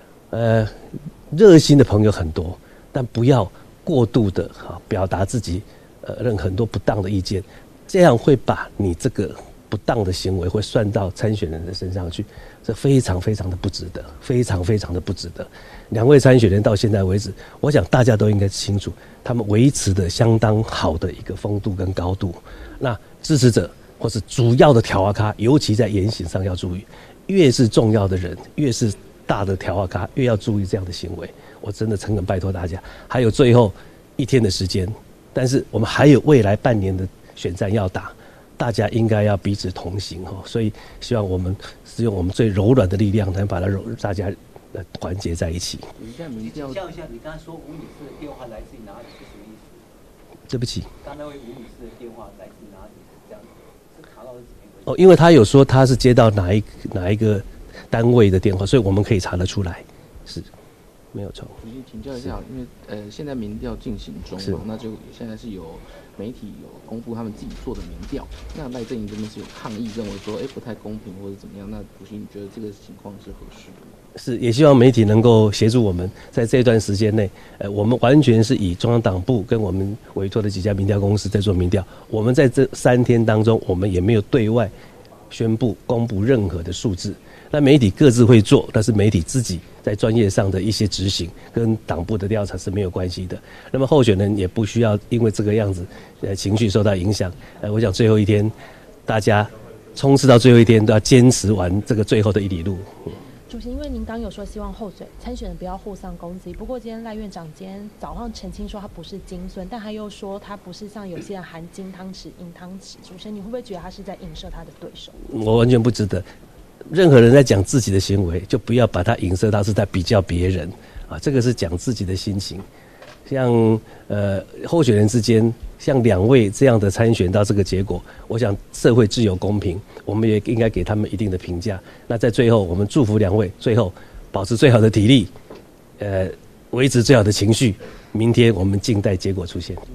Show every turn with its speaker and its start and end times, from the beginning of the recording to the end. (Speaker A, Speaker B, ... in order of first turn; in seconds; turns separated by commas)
Speaker A: 0.3-45.9, Speaker B: 46.0-46.9, Speaker C: 46.3-49.8, Speaker A: 50.5-50.9, Speaker C: 51.0-55.3, Speaker A: 54.8-60.5, Speaker A: 61.1-61.6, Speaker B: 61.6-74.0, Speaker A: 74.2-84.7, Speaker A: 85.3-98.5, Speaker A: 99.0-103.1, Speaker D: 103.5-115.2, Speaker A: 115.3-116.2, Speaker A: 116.9-122.7, Speaker A: 123.3-135.3, Speaker A: 136.0-139.8